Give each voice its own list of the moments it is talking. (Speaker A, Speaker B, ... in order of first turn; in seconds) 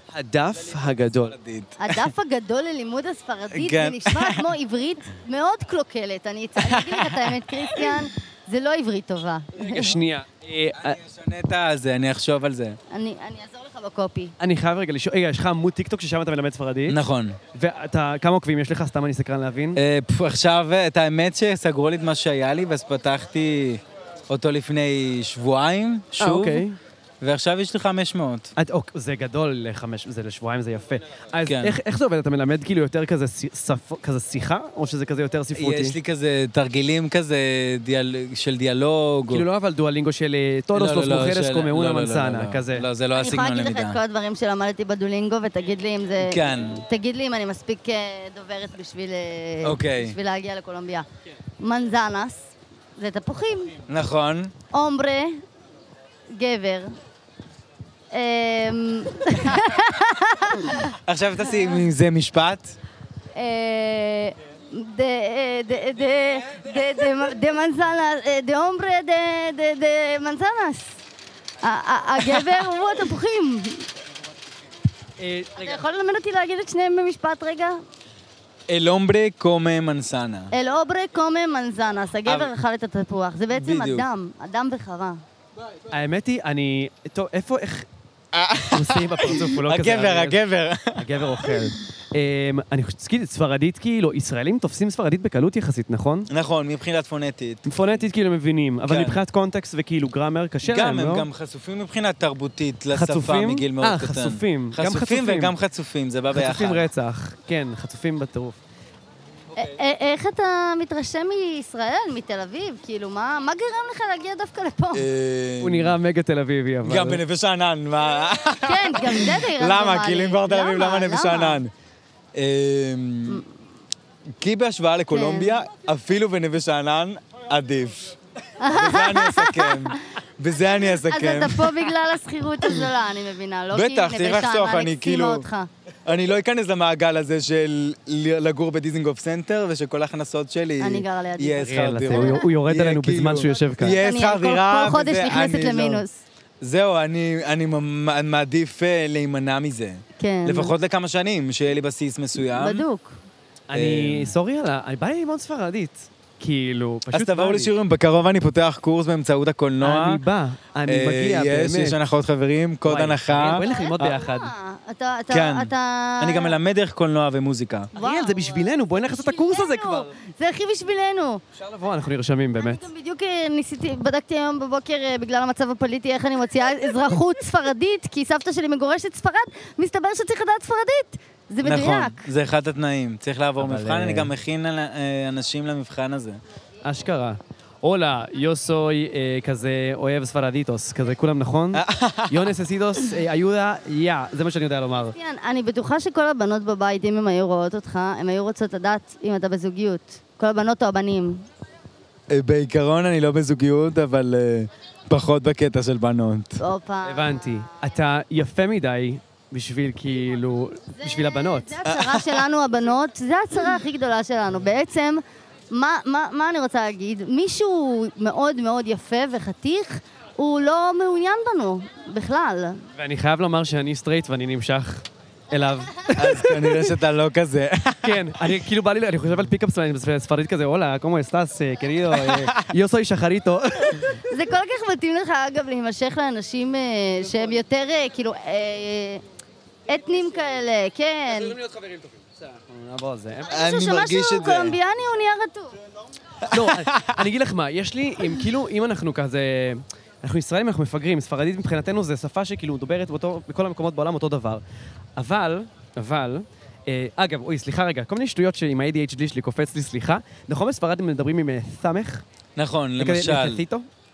Speaker A: 0.1-1.4, 9.6-11.0, 14.4-17.0, 17.5-19.8, 26.2-26.8, 28.6-36.0, 39.3-42.9, 75.2-75.8, 85.9-87.9, 88.7-90.4, 91.0-96.3, 97.7-101.3, 102.9-105.5, 106.3-108.6, 115.6-117.2, 141.6-144.0, 153.7-157.7, 159.8-162.0, 162.8-164.5, 167.9-170.1, 171.6-172.8, 183.6-184.3, 186.8-195.2, 207.0-211.8, 223.0-226.9, 228.0-234.2, 241.6-243.5, 246.5-254.6, 255.2-262.2, 263.0-263.9
Speaker B: 1.3-2.0, 3.5-4.4, 10.8-12.8, 16.9-17.4, 19.8-26.6, 27.2-28.5, 31.4-31.7, 35.5-39.4, 40.7-44.0, 46.2-46.8, 49.6-50.1, 53.9-54.5, 61.1-62.8, 78.7-80.5, 82.2-82.5, 83.5-84.0, 88.3-91.7, 96.3-98.0, 98.9-99.2, 100.6-106.8, 114.9-116.0, 116.8-121.7, 122.3-123.4, 124.4-131.8, 133.7-135.4, 136.1-146.0, 146.6-152.8, 153.7-154.3, 157.1-160.2, 160.9-163.6, 165.3-167.9, 181.6-186.4, 191.7-192.4, 202.3-206.6, 211.9-212.2, 226.2-228.3, 232.2-232.7, 243.5-244.8, 262.6-263.6
Speaker C: 1.8-9.9, 12.9-14.3, 43.1-51.0, 51.6-53.7, 54.7-55.4, 56.3-56.9, 58.1-60.9, 63.3-71.0, 71.6-73.9, 75.5-77.8, 80.5-85.2, 109.5-115.0, 118.6-121.6, 125.1-125.5, 128.6-130.0, 130.9-135.7, 140.8-142.5, 143.5-146.2, 150.2-150.7, 152.4-153.2, 163.6-166.6, 167.9-171.4, 172.6-182.3, 195.2-201.4, 206.6-207.3, 211.0-222.8, 234.3-239.2, 239.9-241.6, 243.5-245.8